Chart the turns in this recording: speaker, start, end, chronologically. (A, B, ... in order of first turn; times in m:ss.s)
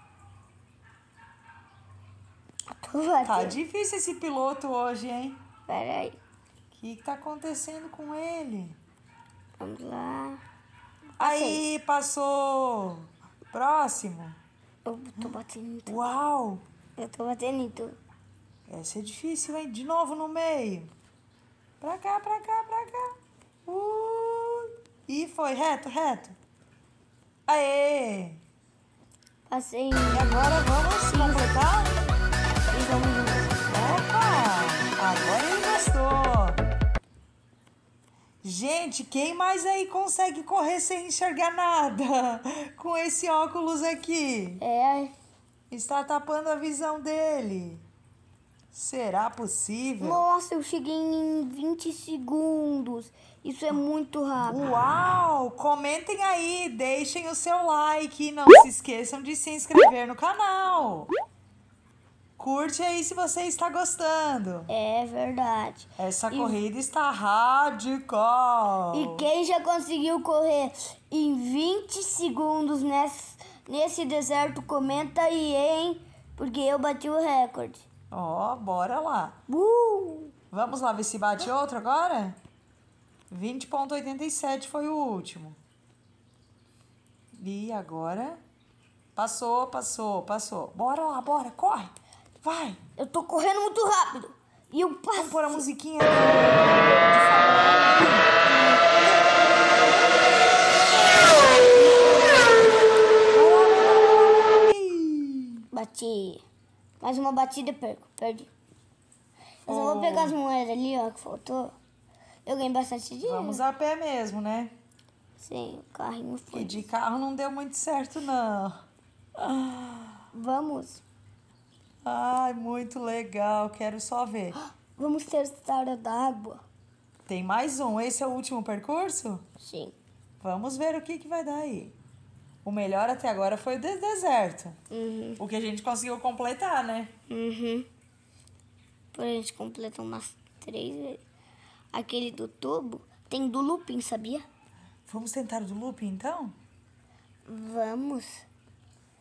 0:02.7-0:03.6 A
0:03.2-0:05.4 B
0:05.7-0:06.2 A
0:06.7-0:08.8 B
0:09.6-0:10.4 A
0:11.2-0:11.6 A
0:11.2-0:14.4 B
0:14.8-0:16.1 A
0:15.8-0:16.6 B
0:17.0-0:18.0 A
0:18.7-0:20.9 B
0:21.8-0:23.1 B
0:23.6-0:26.4 B
0:27.5-0:28.4 B
0:29.5-0:31.6 A
0:30.1-0:31.9 B
0:32.7-0:33.6 A
0:33.7-0:36.6 B
0:38.4-0:44.6 B
0:44.6-0:45.1 A
0:45.7-0:47.8 B
0:48.7-0:50.2 B
0:50.0-0:54.6 A
0:54.4-1:01.1 B
1:02.4-1:04.7 B
1:04.7-1:06.6 A
1:06.0-1:09.3 B
1:08.9-1:17.8 A
1:18.1-1:19.4 B
1:19.5-1:20.3 A
1:20.5-1:22.4 B
1:23.3-1:25.6 B
1:27.4-1:28.4 B
1:29.2-1:32.8 B
1:33.0-1:35.6 A
1:35.1-1:38.3 B
1:38.4-1:38.9 A
1:39.0-1:41.7 B
1:41.7-1:42.8 A
1:43.3-1:45.6 B
1:45.7-1:46.4 A
1:47.0-1:48.5 A
1:49.6-1:51.7 A
1:49.6-1:50.4 B
1:52.4-1:53.6 A
1:53.2-1:54.7 B
1:55.4-1:56.9 A
1:56.5-1:58.8 B
1:59.4-2:00.2 B
2:00.3-2:01.0 A
2:02.0-2:04.6 B
2:04.6-2:06.6 A
2:07.3-2:09.4 B
2:09.6-2:09.9 A
2:10.4-2:11.9 B
2:12.6-2:14.8 B
2:14.9-2:15.4 A
2:15.4-2:17.1 B
2:17.3-2:17.9 A
2:19.1-2:21.2 A
2:21.9-2:24.4 A
2:25.1-2:26.5 B
2:27.4-2:28.4 A